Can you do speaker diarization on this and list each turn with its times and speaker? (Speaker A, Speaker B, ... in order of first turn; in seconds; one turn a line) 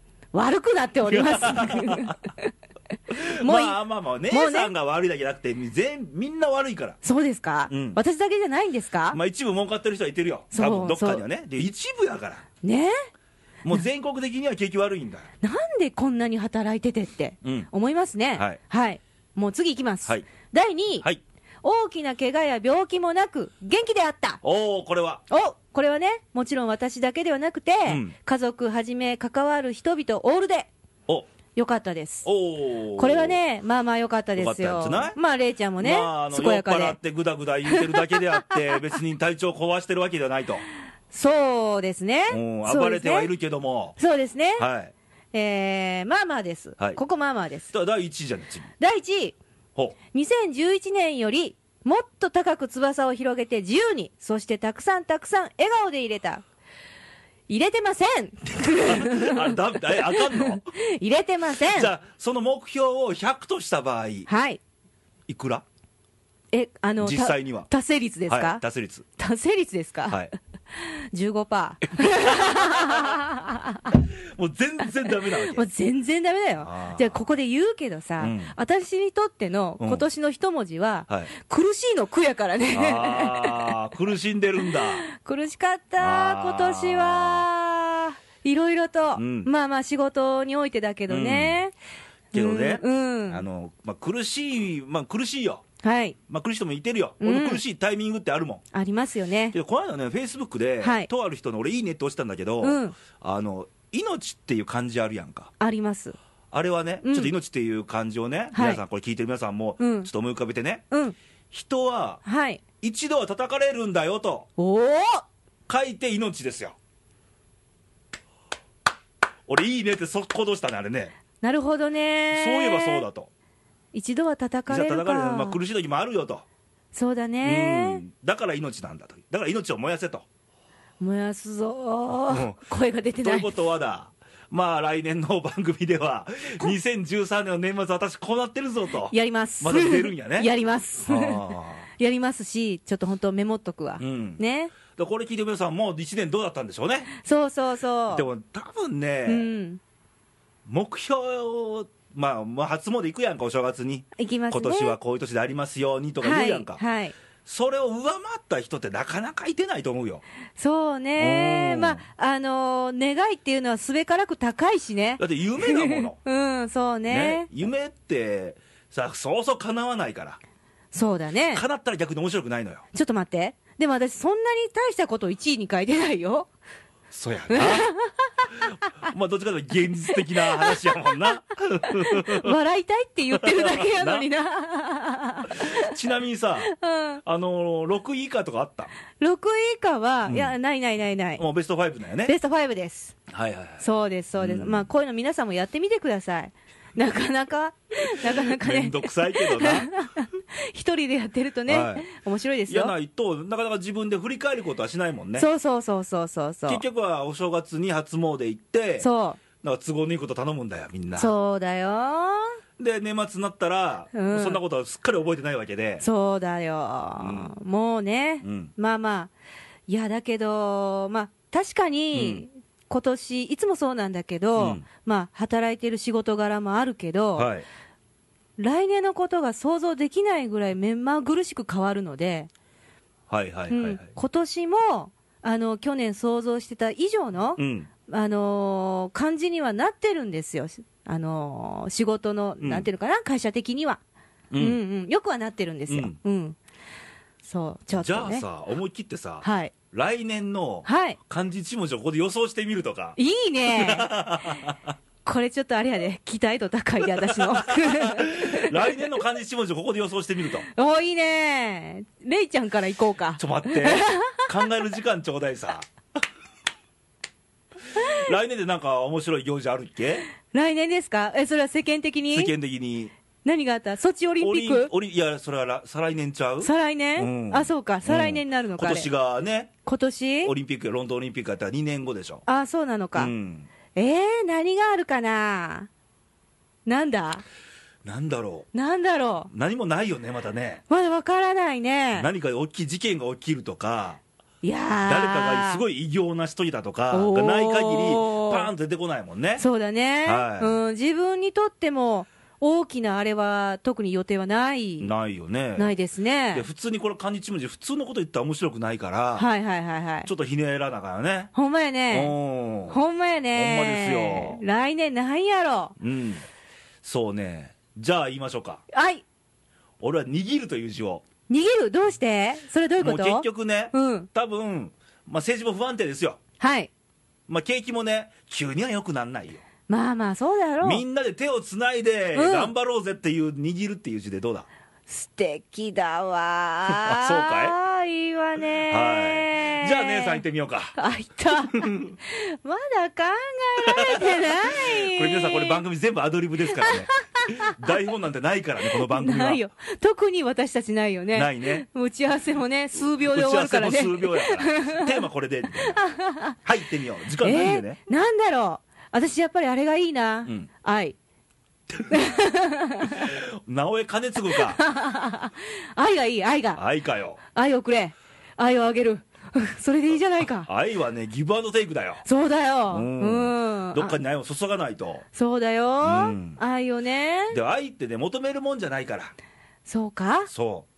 Speaker A: 0.3-2.5
Speaker B: 1.1-2.2
Speaker B: 3.1-7.0
Speaker A: 3.4-3.8
Speaker A: 4.3-4.7
Speaker A: 7.0-9.2
Speaker B: 7.7-8.0
Speaker B: 9.1-12.4
Speaker A: 10.5-11.2
Speaker A: 12.6-12.9
Speaker B: 13.7-15.3
Speaker A: 15.4-21.1
Speaker B: 17.4-17.7
Speaker A: 21.6-24.4
Speaker B: 24.4-25.2
Speaker A: 25.3-30.7
Speaker B: 27.9-28.1
Speaker A: 31.6-32.3
Speaker B: 32.2-33.4
Speaker A: 33.0-37.0
Speaker B: 34.4-35.2
Speaker B: 35.8-40.6
Speaker A: 37.7-38.2
Speaker A: 41.1-43.3
Speaker B: 42.3-44.0
Speaker A: 44.0-44.7
Speaker B: 44.6-44.9
Speaker A: 45.3-47.7
Speaker B: 47.7-48.7
Speaker A: 48.8-49.4
Speaker A: 50.1-56.4
Speaker A: 57.5-61.9
Speaker B: 58.8-60.6
Speaker B: 61.7-64.3
Speaker A: 64.3-64.6
Speaker B: 65.3-65.6
Speaker A: 66.5-68.6
Speaker B: 67.0-67.7
Speaker B: 68.3-69.0
Speaker A: 69.2-70.2
Speaker A: 70.8-74.0
Speaker B: 72.0-73.2
Speaker B: 73.9-75.7
Speaker A: 75.2-83.8
Speaker B: 76.6-77.1
Speaker B: 78.2-78.5
Speaker B: 79.8-80.1
Speaker B: 82.7-85.0
Speaker A: 84.7-91.7
Speaker B: 86.0-87.5
Speaker B: 89.2-89.5
Speaker B: 91.1-91.6
Speaker A: 92.3-93.4
Speaker B: 92.3-95.6
Speaker A: 95.8-96.2
Speaker B: 96.3-98.6
Speaker A: 97.2-97.6
Speaker A: 98.7-99.6
Speaker B: 99.5-105.5
Speaker A: 100.8-101.1
Speaker A: 102.6-103.0
Speaker A: 105.6-106.2
Speaker B: 106.5-110.8
Speaker A: 107.0-107.3
Speaker A: 108.5-108.8
Speaker A: 109.8-110.1
Speaker B: 111.5-112.2
Speaker A: 112.2-112.6
Speaker B: 112.8-114.5
Speaker A: 114.6-115.2
Speaker B: 115.7-116.8
Speaker B: 119.5-121.1
Speaker A: 121.4-123.0
Speaker B: 122.3-123.3
Speaker A: 123.9-125.6
Speaker B: 124.7-126.5
Speaker A: 126.9-128.0
Speaker B: 127.4-130.3
Speaker A: 131.0-133.5
Speaker B: 132.3-132.6
Speaker B: 133.2-140.5
Speaker A: 139.1-144.7
Speaker B: 141.1-141.9
Speaker B: 144.0-147.1
Speaker A: 147.2-148.3
Speaker B: 148.1-149.5
Speaker A: 149.3-149.8
Speaker B: 150.7-156.8
Speaker A: 154.2-155.0
Speaker A: 156.2-157.1
Speaker B: 157.5-160.2
Speaker A: 160.6-167.5
Speaker B: 161.2-162.0
Speaker B: 165.2-166.2
Speaker B: 167.1-170.4
Speaker A: 170.9-171.6
Speaker B: 171.5-172.8
Speaker A: 172.9-176.5
Speaker B: 177.1-177.9
Speaker A: 177.5-178.9
Speaker B: 179.0-182.6
Speaker A: 180.1-181.1
Speaker A: 181.9-185.9
Speaker B: 183.3-184.3
Speaker B: 185.5-186.7
Speaker A: 186.7-187.2
Speaker B: 187.2-188.9
Speaker A: 189.2-191.4
Speaker B: 190.3-190.5
Speaker B: 191.4-192.3
Speaker A: 192.3-193.2
Speaker B: 193.3-193.8
Speaker A: 193.8-202.9
Speaker B: 194.4-194.9
Speaker B: 198.1-199.9
Speaker B: 201.7-202.1
Speaker B: 202.7-205.5
Speaker A: 205.4-206.8
Speaker B: 206.7-209.1
Speaker A: 209.0-209.4
Speaker B: 209.6-211.3
Speaker A: 211.2-212.6
Speaker B: 212.8-216.1
Speaker A: 214.1-214.6
Speaker A: 216.0-219.3
Speaker B: 217.2-217.5
Speaker B: 218.4-218.7
Speaker A: 219.9-227.5
Speaker B: 222.1-222.4
Speaker B: 224.6-224.8
Speaker B: 227.4-227.7
Speaker A: 228.6-232.5
Speaker B: 233.3-234.1
Speaker A: 233.7-244.0
Speaker B: 237.6-237.9
Speaker B: 242.6-242.9
Speaker B: 244.5-244.8
Speaker A: 244.6-246.6
Speaker B: 245.9-246.2
Speaker A: 247.4-248.4
Speaker B: 248.0-254.9
Speaker A: 249.4-249.7
Speaker A: 250.8-251.2
Speaker A: 253.2-254.1
Speaker A: 255.2-259.0
Speaker B: 257.1-260.7
Speaker A: 260.7-264.5
Speaker B: 263.4-265.9
Speaker B: 267.9-270.3
Speaker A: 270.5-272.5
Speaker B: 272.3-273.1
Speaker A: 273.4-274.9
Speaker B: 274.4-279.7
Speaker A: 276.6-279.1
Speaker A: 279.9-280.5
Speaker B: 280.4-282.4
Speaker A: 282.5-283.3
Speaker B: 283.2-283.7
Speaker A: 283.9-285.9
Speaker A: 286.9-287.4
Speaker B: 288.1-288.7
Speaker A: 288.7-289.5
Speaker B: 289.5-290.8
Speaker A: 290.9-292.3
Speaker B: 292.1-294.2
Speaker A: 294.6-295.8
Speaker B: 295.0-299.6
Speaker A: 297.1-298.7
Speaker A: 299.6-305.1
Speaker B: 300.2-300.8
Speaker B: 305.0-305.9
Speaker A: 305.8-306.7
Speaker B: 306.5-309.5
Speaker A: 309.4-310.3
Speaker B: 310.2-311.5
Speaker A: 311.6-312.3
Speaker B: 312.1-313.0
Speaker A: 312.9-315.9
Speaker B: 313.5-314.6
Speaker B: 316.0-316.4
Speaker B: 317.0-318.8
Speaker A: 318.9-319.2
Speaker B: 320.0-321.2
Speaker A: 321.5-324.3
Speaker B: 323.0-326.4
Speaker A: 326.6-326.9
Speaker B: 327.5-329.6
Speaker A: 329.9-331.0
Speaker B: 330.8-334.7
Speaker A: 332.3-332.7
Speaker A: 335.1-340.4
Speaker B: 336.9-337.7
Speaker B: 338.9-341.0
Speaker A: 340.9-345.8
Speaker B: 341.7-342.1
Speaker B: 343.8-349.6
Speaker A: 346.7-348.0
Speaker A: 348.9-355.2
Speaker B: 351.3-351.8
Speaker B: 353.0-356.0
Speaker A: 355.9-356.6
Speaker B: 356.6-358.0
Speaker A: 357.4-361.2
Speaker B: 362.0-362.3
Speaker A: 362.1-363.3
Speaker B: 363.0-364.8
Speaker A: 364.5-366.8
Speaker B: 366.8-367.4
Speaker A: 367.5-370.7
Speaker B: 370.6-372.2
Speaker A: 372.2-374.2
Speaker B: 372.9-375.2
Speaker A: 375.4-377.6
Speaker B: 376.0-376.6
Speaker B: 377.5-379.3
Speaker A: 379.9-380.5
Speaker B: 380.5-380.9